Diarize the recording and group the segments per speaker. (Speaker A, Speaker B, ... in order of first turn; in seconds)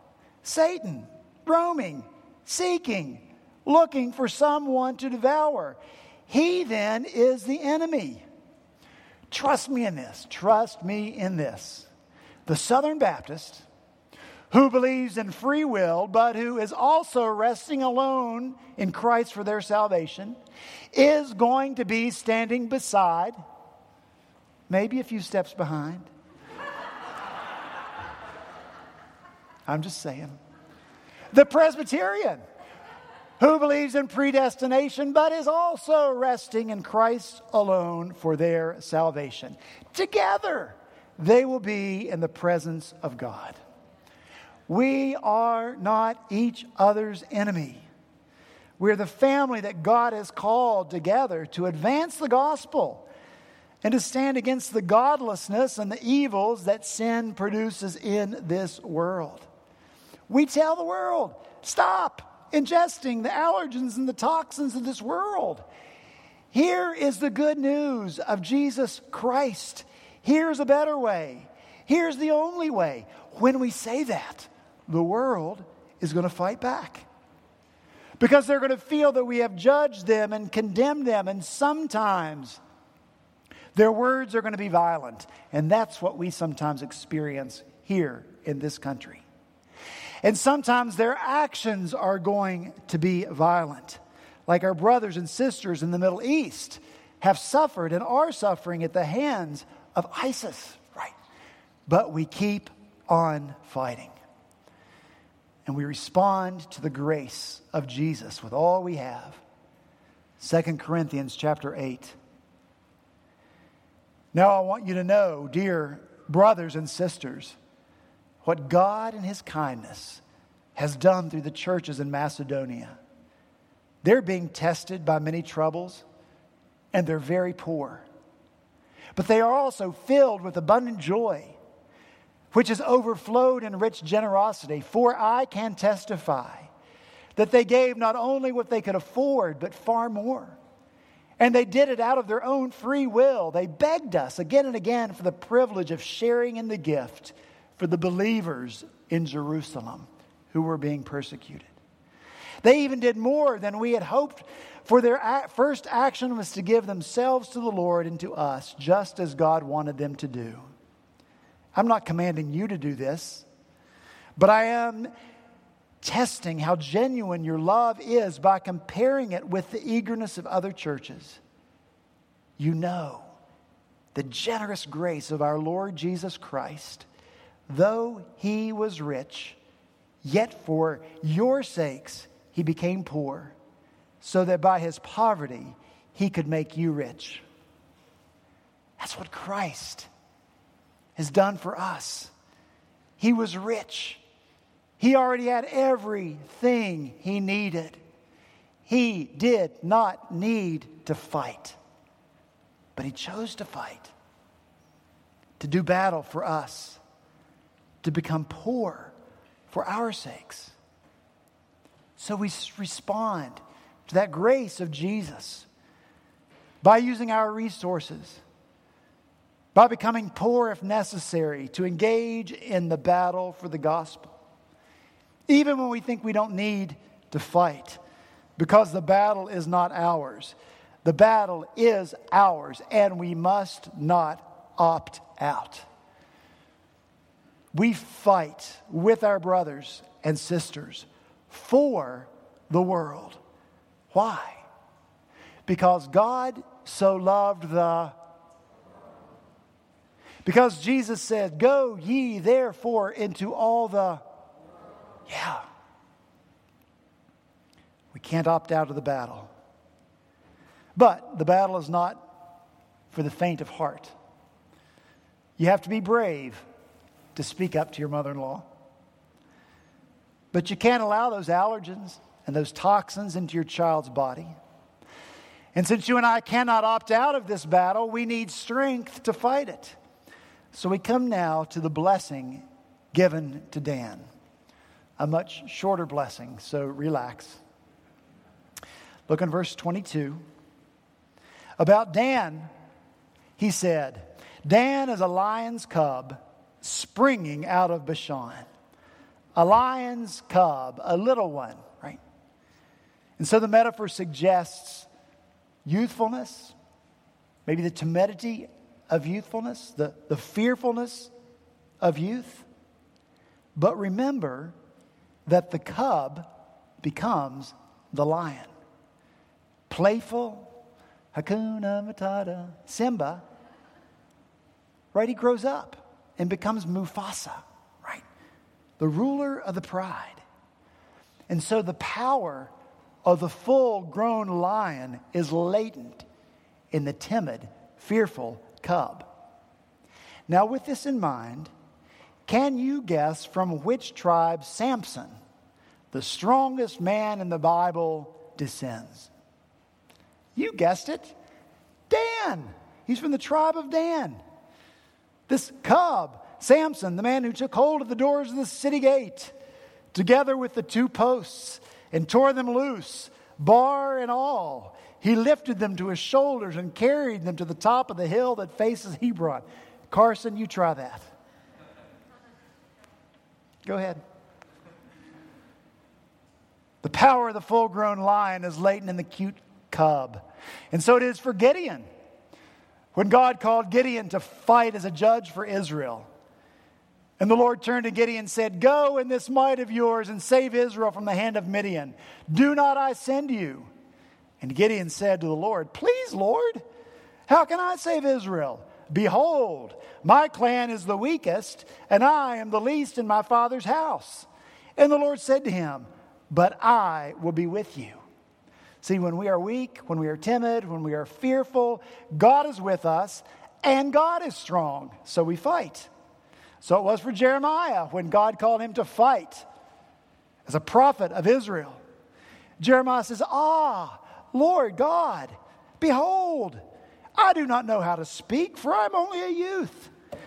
Speaker A: 0.4-8.2, 9.3-11.9, 12.5-13.7, 14.5-20.4, 20.9-23.4, 24.7-26.1, 29.7-30.4, 31.3-32.4, 33.4-43.6, 44.7-47.9, 48.8-53.1, 53.8-59.5, 60.3-65.6, 66.5-77.1, 78.2-82.6, 83.8-89.2, 90.2-101.2, 101.9-104.2, 105.7-109.4, 110.4-112.2, 114.3-117.6, 118.4-120.2, 120.8-123.0, 124.0-126.0, 126.9-128.1, 129.2-131.6, 132.5-136.7, 137.4-140.6, 141.4-151.7, 152.6-160.7, 161.8-163.5, 164.4-165.1, 166.0-171.4, 172.6-173.3, 174.1-177.1, 177.7-179.6, 180.2-183.6, 184.2-187.4, 189.0-190.1, 191.2-192.3, 193.2-194.2, 195.0-198.0, 198.9-201.8, 203.0-204.1, 205.6-207.0, 208.0-209.1, 209.7-210.8, 212.2-215.7, 216.8-218.4, 219.8-224.4, 225.5-228.0, 228.6-235.9, 237.7-243.4, 244.1-244.7, 245.7-248.1, 250.4-254.2, 255.3-255.7, 258.1-259.5, 260.9-262.2, 263.1-264.1, 265.6-266.6, 267.4-268.7, 270.5-274.5, 275.8-280.0, 280.7-284.2, 285.2-287.6, 289.3-290.4, 291.8-292.7, 293.6-298.6, 299.6-302.2, 303.4-305.1, 305.9-306.8, 307.7-311.3, 312.0-312.7, 313.8-314.7, 315.5-316.5, 317.0-318.7, 319.9-320.7, 321.3-323.4, 325.1-328.2, 329.0-330.4, 331.5-332.7, 333.2-336.2, 336.9-339.3, 340.5-341.7, 342.5-345.4, 346.1-349.3, 350.6-351.4, 352.1-354.4, 355.5-359.5, 360.1-371.3, 373.9-374.2, 377.0-382.1, 383.1-386.3, 387.4-393.9, 394.6-396.8, 397.5-408.2, 409.0-416.1, 416.8-419.6, 420.7-422.0, 422.8-426.8, 427.4-430.1